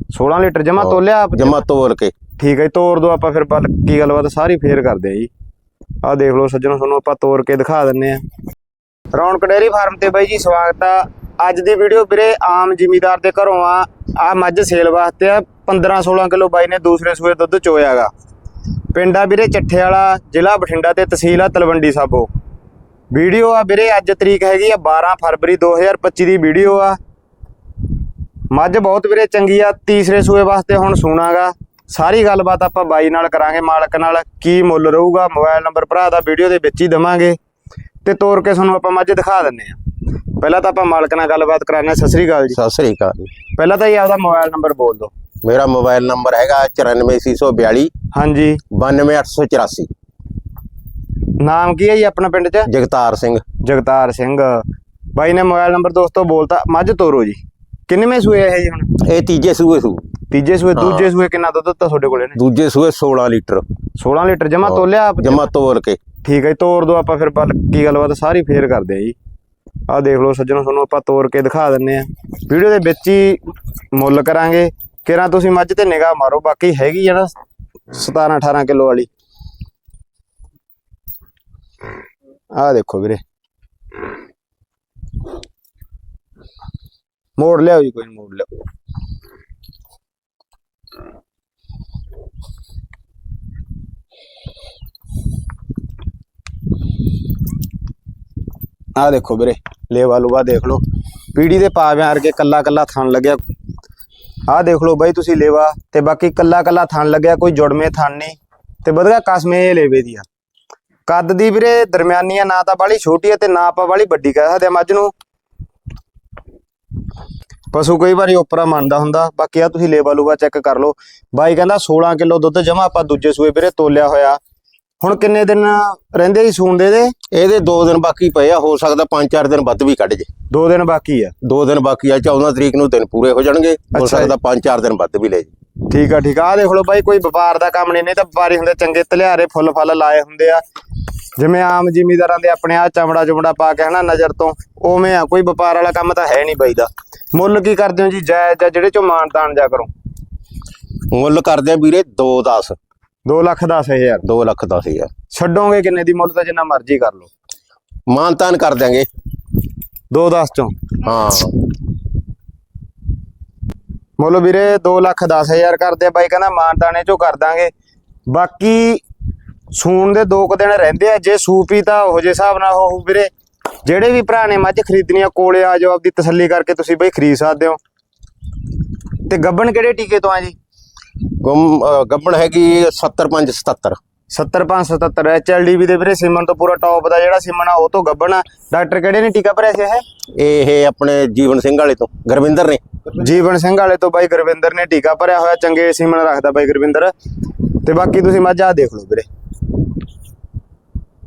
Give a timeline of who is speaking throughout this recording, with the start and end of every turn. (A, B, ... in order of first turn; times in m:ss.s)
0:00.1-0:01.6 A
0:00.8-0:02.2 B
0:02.4-0:05.3 A
0:06.0-0:08.2 A
0:09.1-0:18.1 A
0:18.9-0:22.3 A
0:23.1-0:27.0 A
0:28.5-0:37.4 A
0:38.0-0:39.8 A
0:40.4-0:42.6 A
0:42.5-0:43.3 B
0:43.6-0:45.1 A
0:45.4-0:47.9 B
0:48.1-0:48.6 A
0:48.7-0:49.9 B
0:51.4-0:52.7 A
0:52.6-0:53.4 B
0:53.6-0:58.9 A
0:59.0-1:00.0 B
1:00.3-1:02.4 A
1:00.8-1:01.1 B
1:02.4-1:03.6 B
1:04.0-1:05.5 A
1:04.6-1:06.0 B
1:06.2-1:09.2 A
1:09.9-1:17.3 A
1:17.9-1:19.1 A
1:22.6-1:23.2 A
1:27.4-1:28.5 A
1:39.0-1:40.8 A
1:41.3-1:43.4 A
1:44.5-1:50.3 A
1:51.0-1:55.1 A
1:57.7-2:04.4 A
2:05.0-2:07.1 A
2:07.3-2:10.3 B
2:10.5-2:11.3 A
2:11.4-2:15.5 B
2:13.9-2:14.3 A
2:15.9-2:20.6 A
2:21.4-2:29.9 A
2:31.1-2:32.8 B
2:33.2-2:34.2 A
2:34.2-2:35.1 B
2:35.3-2:37.3 A
2:38.1-2:39.1 B
2:40.1-2:40.9 A
2:41.0-2:41.5 B
2:44.2-2:47.7 A
2:48.3-2:49.0 A
2:49.7-2:53.3 A
2:53.8-2:57.8 A
2:59.3-3:00.6 A
3:01.3-3:04.0 B
3:04.3-3:10.0 A
3:10.4-3:12.8 B
3:13.1-3:19.3 A